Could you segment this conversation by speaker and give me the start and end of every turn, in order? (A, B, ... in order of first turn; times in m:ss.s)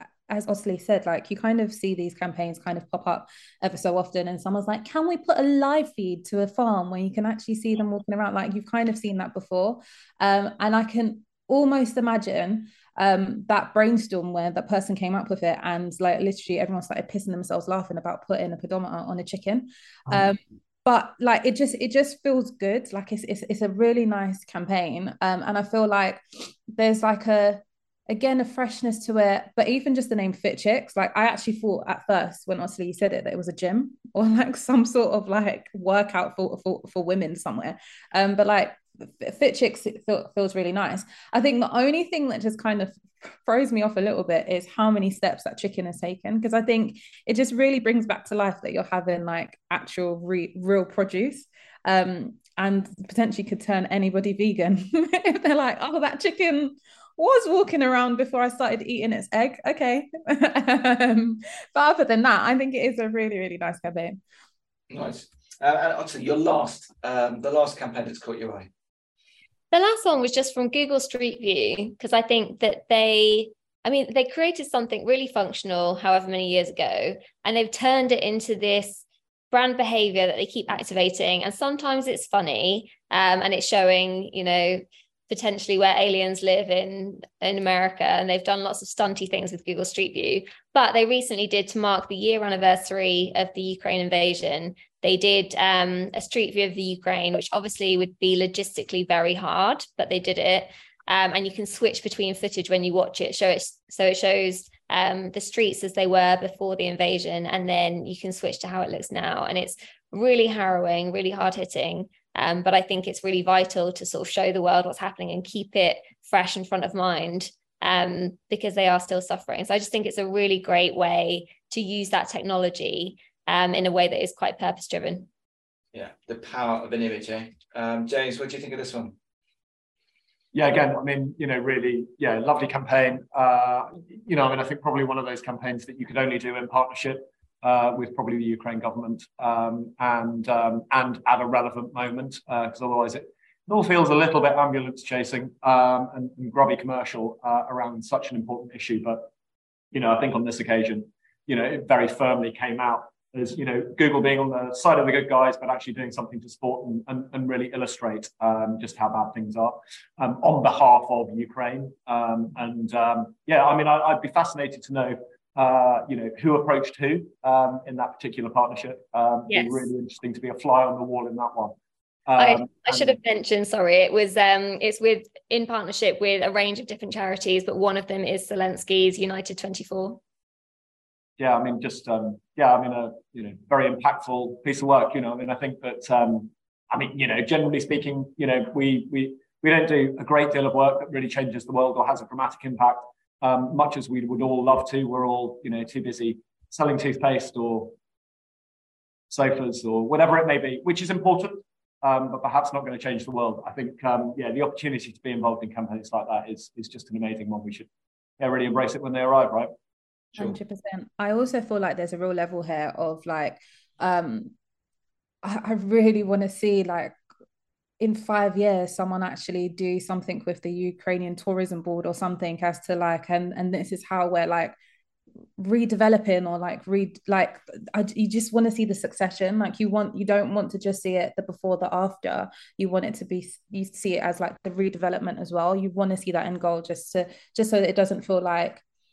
0:00.3-1:04.2 A
1:04.9-1:08.7 B
1:09.7-2:05.3 C
2:05.9-2:09.2 B
2:10.5-2:29.3 D
2:29.9-2:51.7 D
2:49.5-2:49.9 C
2:52.3-2:53.2 D
2:52.4-3:00.2 C
3:01.4-3:18.0 D
3:19.3-3:27.9 D
3:28.4-3:29.7 D
3:30.3-3:34.5 A
3:35.4-3:37.1 A
3:38.0-3:44.7 A
3:45.6-3:58.8 A